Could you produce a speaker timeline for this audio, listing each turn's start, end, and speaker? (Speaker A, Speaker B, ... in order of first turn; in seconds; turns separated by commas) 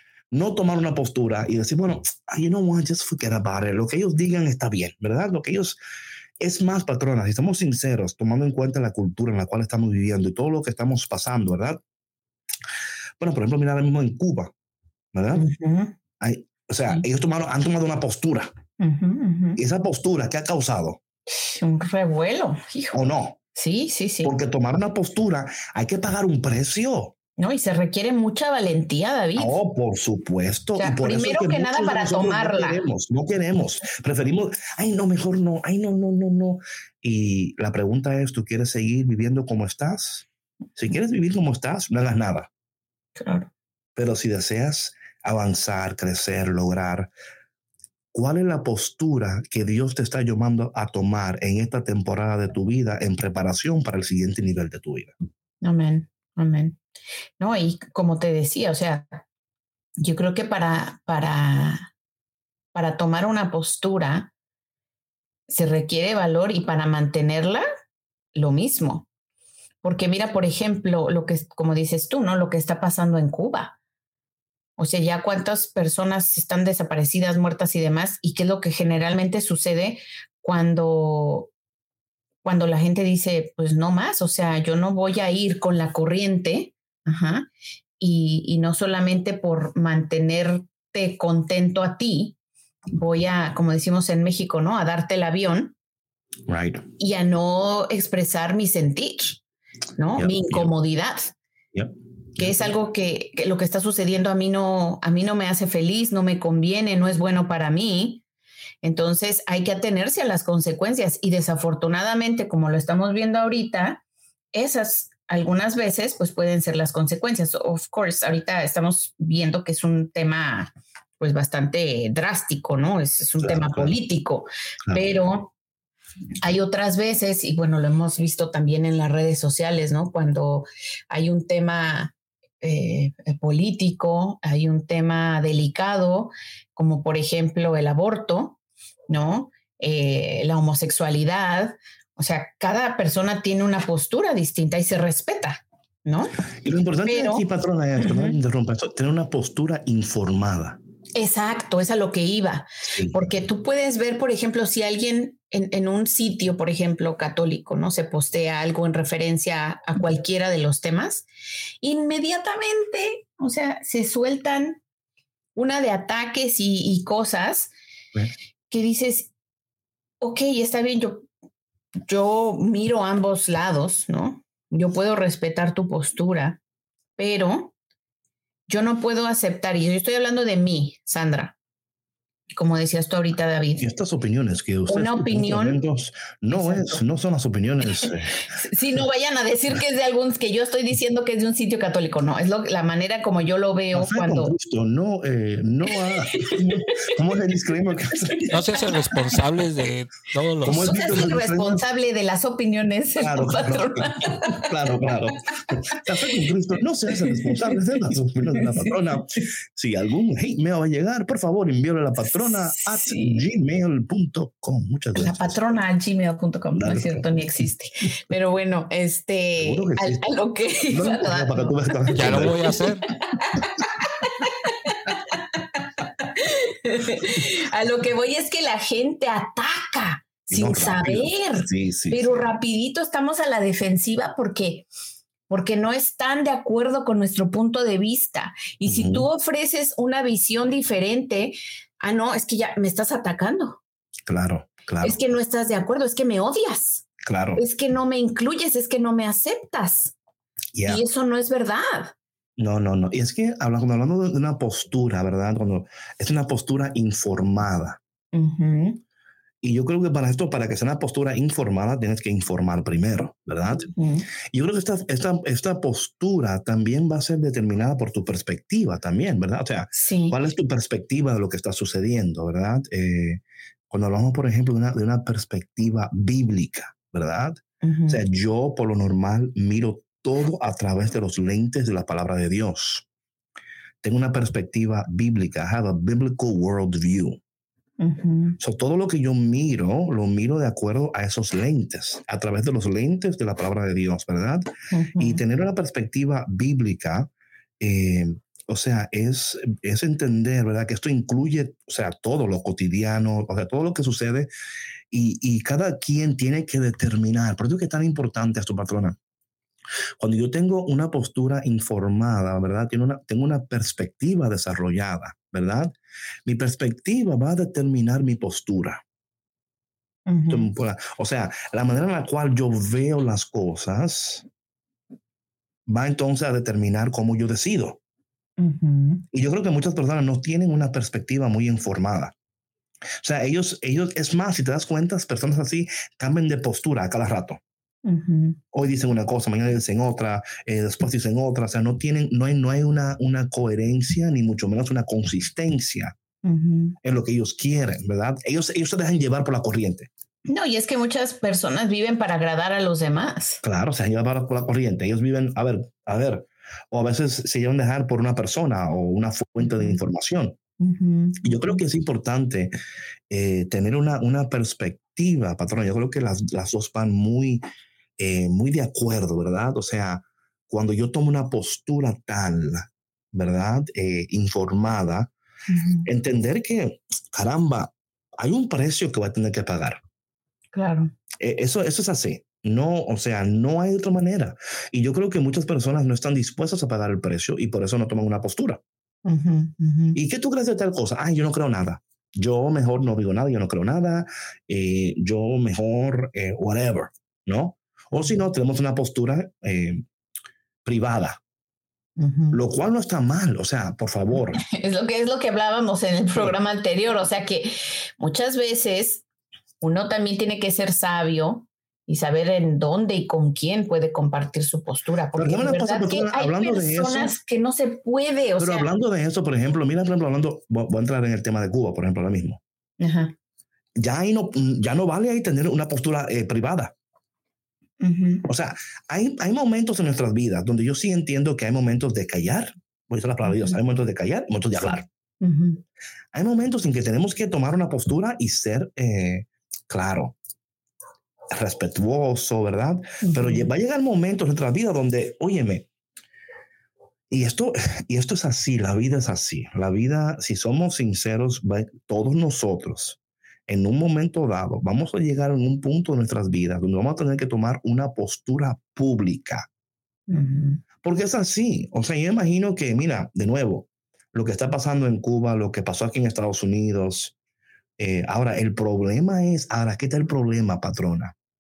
Speaker A: 0.3-5.8, Speaker A: 6.4-11.8, Speaker A: 13.2-14.5, Speaker A: 15.1-15.5, Speaker B: 15.3-15.9, Speaker A: 16.2-18.5, Speaker B: 18.8-19.6, Speaker A: 19.6-21.0, Speaker B: 21.3-24.3, Speaker A: 22.9-23.4, Speaker A: 24.2-27.1, Speaker B: 27.4-29.6, Speaker A: 29.4-42.5, Speaker B: 30.8-32.8, Speaker B: 43.2-43.5, Speaker A: 44.0-47.1, Speaker A: 48.1-55.1, Speaker B: 55.6-56.8, Speaker B: 57.4-59.2, Speaker B: 60.0-61.9, Speaker B: 62.7-64.3, Speaker B: 65.5-67.6, Speaker B: 68.3-69.1, Speaker B: 69.8-73.8, Speaker B: 74.8-81.5, Speaker B: 82.4-87.5, Speaker B: 88.0-92.4, Speaker B: 92.9-95.8, Speaker A: 96.5-96.8, Speaker B: 97.0-99.4, Speaker B: 100.0-101.3, Speaker A: 100.2-100.7, Speaker A: 101.7-102.7, Speaker B: 102.4-108.2, Speaker B: 108.8-125.5, Speaker A: 123.4-124.0, Speaker A: 124.9-125.1, Speaker B: 126.4-146.4, Speaker A: 146.6-150.8, Speaker B: 147.1-147.4, Speaker B: 148.0-148.4, Speaker B: 151.2-161.3, Speaker A: 152.8-153.3, Speaker B: 161.8-164.8, Speaker B: 165.6-167.7, Speaker B: 168.7-169.3, Speaker B: 170.2-171.3, Speaker B: 172.1-176.6, Speaker B: 177.2-177.7, Speaker B: 178.7-181.6, Speaker B: 182.6-183.8, Speaker A: 183.8-188.3, Speaker B: 184.9-185.8, Speaker B: 186.5-187.0, Speaker B: 188.0-194.6, Speaker A: 193.9-198.5, Speaker B: 196.2-197.1, Speaker B: 198.2-198.5, Speaker C: 198.5-201.2, Speaker A: 200.6-201.8, Speaker B: 200.8-204.7, Speaker A: 203.2-215.6, Speaker B: 207.1-207.8, Speaker B: 208.6-208.9, Speaker B: 212.2-213.4, Speaker B: 215.2-234.9, Speaker A: 216.8-217.3, Speaker A: 219.6-220.3, Speaker A: 220.9-222.7, Speaker C: 222.1-223.1, Speaker A: 230.5-232.5, Speaker B: 235.5-243.8, Speaker A: 238.8-239.3, Speaker A: 244.3-245.2, Speaker B: 245.0-250.2, Speaker A: 247.2-247.6, Speaker A: 250.7-251.0, Speaker B: 250.9-252.1, Speaker A: 252.6-258.0, Speaker B: 258.3-259.0, Speaker A: 259.6-263.9, Speaker B: 263.9-264.3, Speaker A: 264.5-283.1, Speaker B: 269.9-270.4, Speaker B: 277.8-278.2, Speaker A: 284.0-287.4, Speaker B: 288.0-288.6, Speaker A: 288.6-297.3, Speaker B: 294.9-295.4, Speaker A: 297.8-304.5, Speaker A: 305.1-309.2, Speaker A: 310.2-315.9, Speaker A: 316.4-319.0, Speaker B: 320.3-320.7, Speaker A: 320.5-324.4, Speaker A: 325.9-328.0, Speaker B: 328.6-329.2, Speaker A: 329.3-332.4, Speaker A: 333.2-337.6, Speaker B: 338.1-338.6, Speaker A: 338.7-346.1, Speaker B: 346.4-347.0, Speaker A: 347.0-350.1, Speaker B: 350.5-353.6, Speaker A: 353.6-360.6, Speaker B: 359.6-360.0, Speaker B: 360.8-361.8, Speaker A: 361.4-362.7, Speaker A: 363.3-367.6, Speaker A: 368.2-375.3, Speaker B: 375.7-376.1, Speaker A: 376.1-380.0, Speaker B: 380.7-381.1, Speaker A: 381.4-388.8, Speaker B: 389.2-390.2, Speaker A: 390.1-400.0, Speaker A: 400.9-401.4, Speaker B: 402.2-402.6, Speaker A: 402.5-404.6, Speaker B: 404.6-409.2, Speaker B: 409.8-418.9, Speaker A: 415.4-417.4, Speaker A: 418.6-422.6, Speaker B: 423.0-423.3, Speaker A: 424.0-426.9, Speaker B: 428.0-428.5, Speaker A: 428.5-435.1, Speaker B: 433.4-433.8, Speaker B: 435.4-435.8, Speaker A: 436.3-440.4, Speaker A: 441.5-445.9, Speaker B: 443.2-443.7, Speaker A: 447.3-459.7, Speaker B: 460.3-460.8, Speaker A: 461.0-467.3, Speaker A: 468.0-471.4